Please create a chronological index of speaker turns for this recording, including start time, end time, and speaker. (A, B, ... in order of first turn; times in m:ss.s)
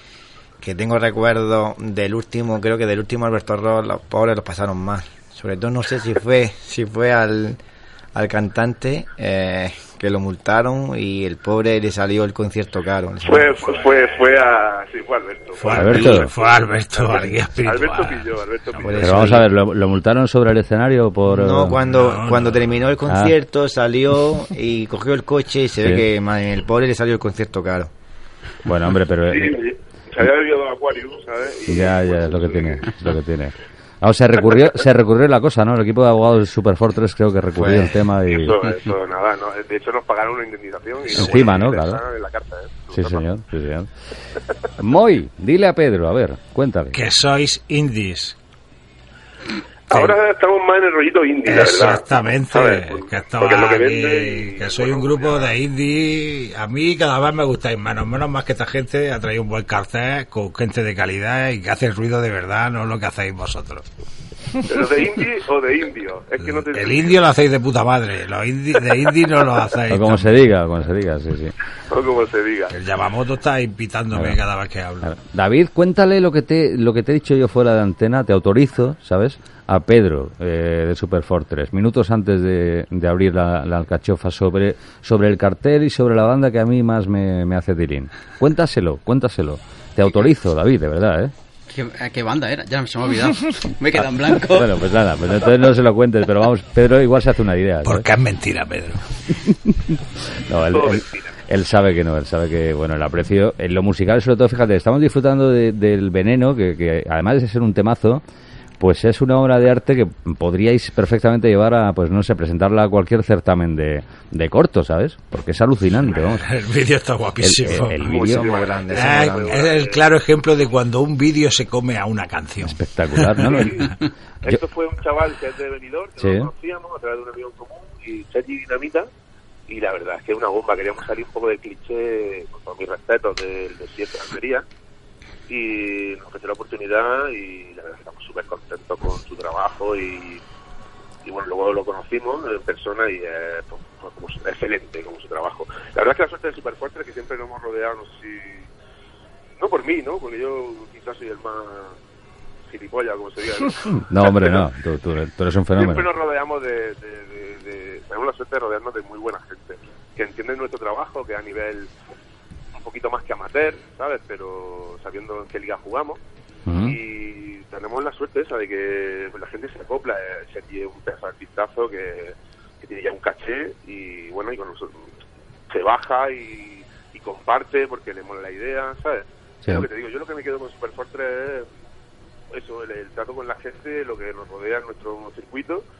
0:00.6-0:07.6 A
0:08.1-0:13.8 A
0:13.2-0:16.2 B
0:13.7-0:14.2 C
0:15.6-0:19.4 C
0:15.7-0:16.3 D
0:15.9-0:16.3 A
0:17.0-0:19.2 B
0:18.8-0:19.5 A
0:19.0-0:21.8 D
0:21.3-0:27.9 A
0:21.8-0:22.9 C
0:23.0-0:23.4 D
0:25.8-0:26.1 D
0:28.6-0:29.6 D
0:29.3-0:32.9 B
0:31.7-0:38.6 D
0:37.5-0:38.0 A
0:38.3-0:43.2 B
0:41.1-0:41.7 C
0:41.1-0:42.0 D
0:42.9-0:43.9 D
0:44.8-0:47.0 D
0:46.9-0:48.4 C
0:49.9-0:50.2 C
0:49.9-0:55.5 B
0:51.4-1:03.8 C
1:04.6-1:07.2 B
1:06.4-1:10.4 C
1:09.9-1:11.5 D
1:11.9-1:12.7 B
1:12.7-1:15.2 C
1:14.1-1:14.4 D
1:15.0-1:31.3 D
1:31.7-1:34.7 E
1:34.0-1:38.1 D
1:37.8-1:39.0 C
1:39.4-1:48.2 D
1:40.7-1:41.3 B
1:48.8-1:56.5 D
1:56.0-1:58.1 C
1:57.4-1:58.5 D
1:58.0-2:00.0 B
1:58.1-1:59.7 A
1:58.9-2:03.8 C
2:02.6-2:03.9 D
2:03.4-2:09.1 B
2:06.2-2:06.5 D
2:09.7-2:14.6 B
2:15.5-2:20.4 B
2:21.2-2:28.7 B
2:29.6-2:32.0 B
2:32.7-2:34.6 B
2:34.0-2:36.1 D
2:35.7-2:41.9 B
2:42.7-2:46.2 B
2:46.7-2:47.0 D
2:46.8-2:55.1 B
2:55.7-3:01.7 B
3:02.5-3:05.8 B